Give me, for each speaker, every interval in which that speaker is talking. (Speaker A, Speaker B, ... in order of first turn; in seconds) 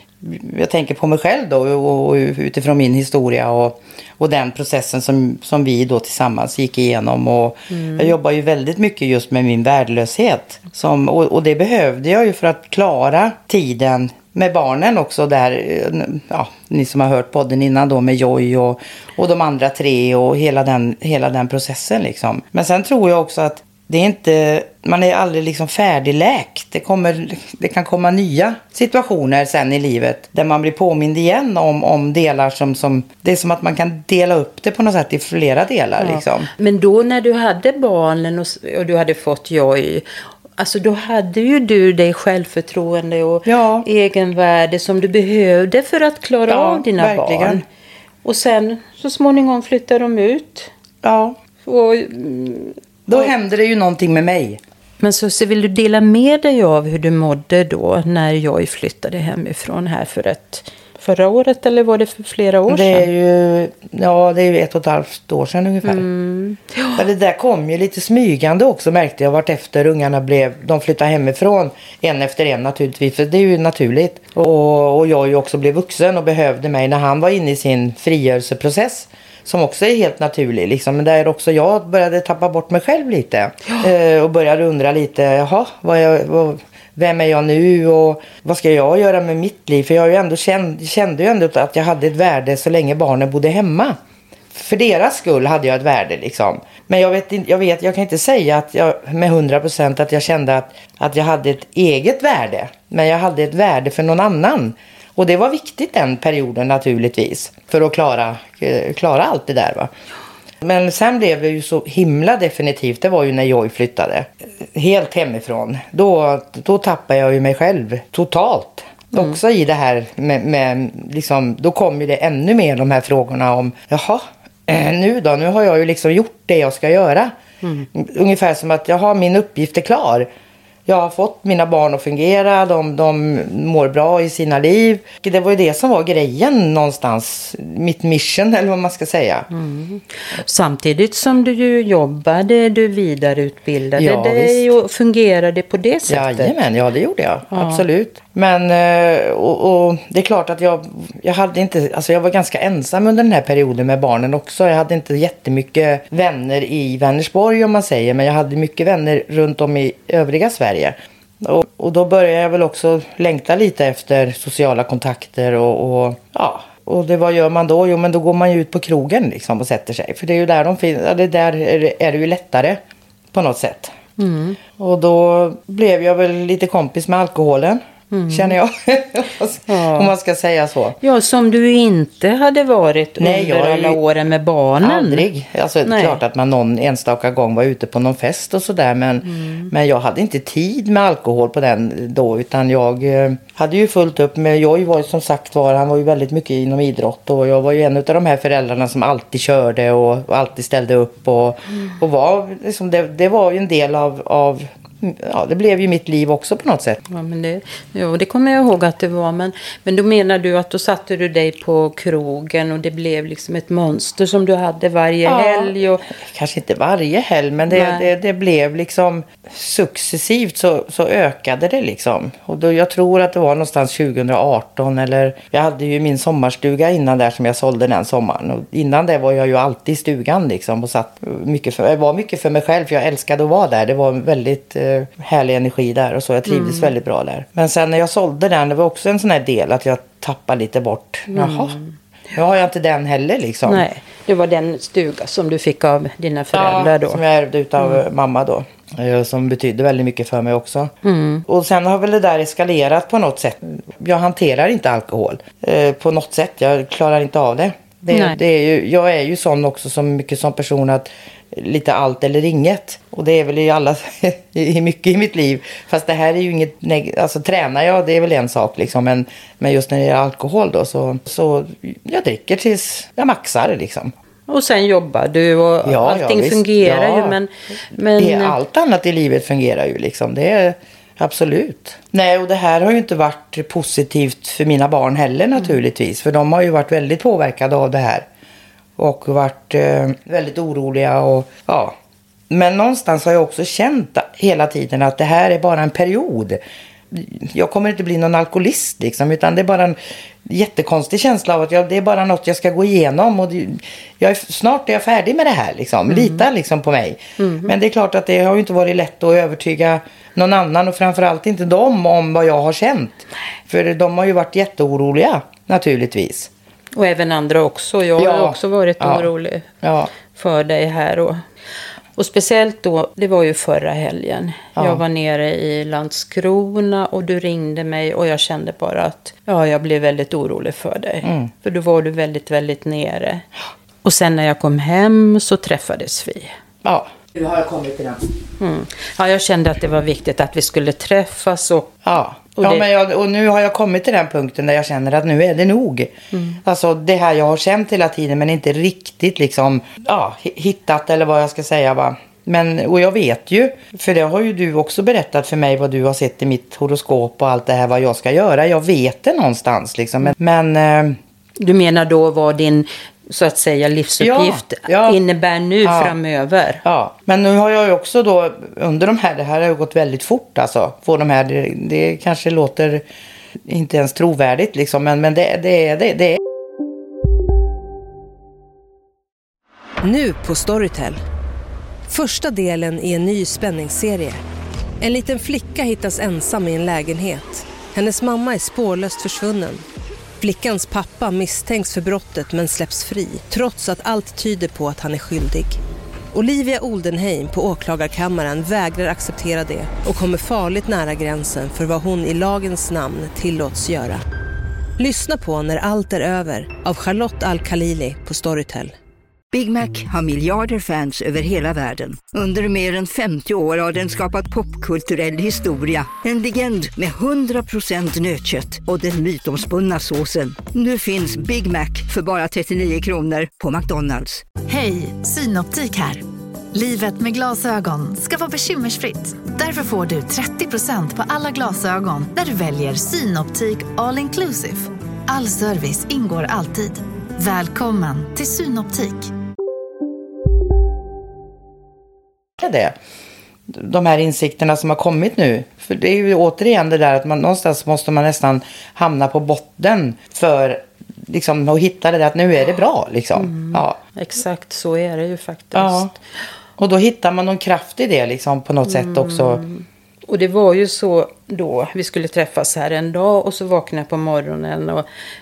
Speaker A: 0.2-36.5, 43.5-43.9, 46.5-47.6, 51.0-51.4, 53.1-54.6, 62.7-66.1, 67.0-94.0, 94.5-109.9, 110.6-127.3, 127.9-130.3, 130.9-139.5, 144.0-144.7, 146.1-172.8, 173.3-173.9, 174.8-181.0, 183.2-184.0, 184.8-207.0, 215.3-241.8, 242.3-243.8, 246.5-250.9, 251.5-274.1, 275.9-277.4, 278.2-288.3, 289.0-292.0, 292.5-296.6, 297.1-316.5, 318.2-319.3, 319.8-320.1, 324.8-325.0, 331.2-331.5, 336.8-337.1, 337.7-338.2, 342.0-361.2, 364.2-365.2, 365.8-366.1, 366.8-373.0, 373.6-376.4, 442.6-443.0, 443.7-454.0, 455.7-456.1, 456.8-459.6
Speaker B: 7.7-8.2, 36.0-40.0, 40.6-47.6, 48.2-50.7, 51.6-53.3, 55.0-63.1, 65.8-67.0, 127.6-127.9, 139.5-146.5, 147.5-147.8, 174.2-174.6, 178.1-178.6, 179.7-180.1, 181.0-185.3, 185.8-186.2, 189.2-189.7, 207.1-216.0, 217.7-218.1, 236.5-236.9, 241.3-241.9, 243.7-247.2, 251.0-251.4, 258.1-258.4, 274.5-278.6, 306.1-306.5, 307.4-307.8, 316.9-319.7, 320.3-321.4, 322.2-333.4, 334.0-336.5, 338.6-341.9, 342.6-342.9, 346.3-346.6, 361.6-366.8, 453.4-456.2, 458.9-465.1
Speaker C: 380.0-381.2, 382.1-384.4, 385.0-389.9, 390.4-395.8, 396.3-404.2, 405.0-408.9
Speaker D: 409.5-424.5
Speaker E: 424.7-426.2, 426.8-439.3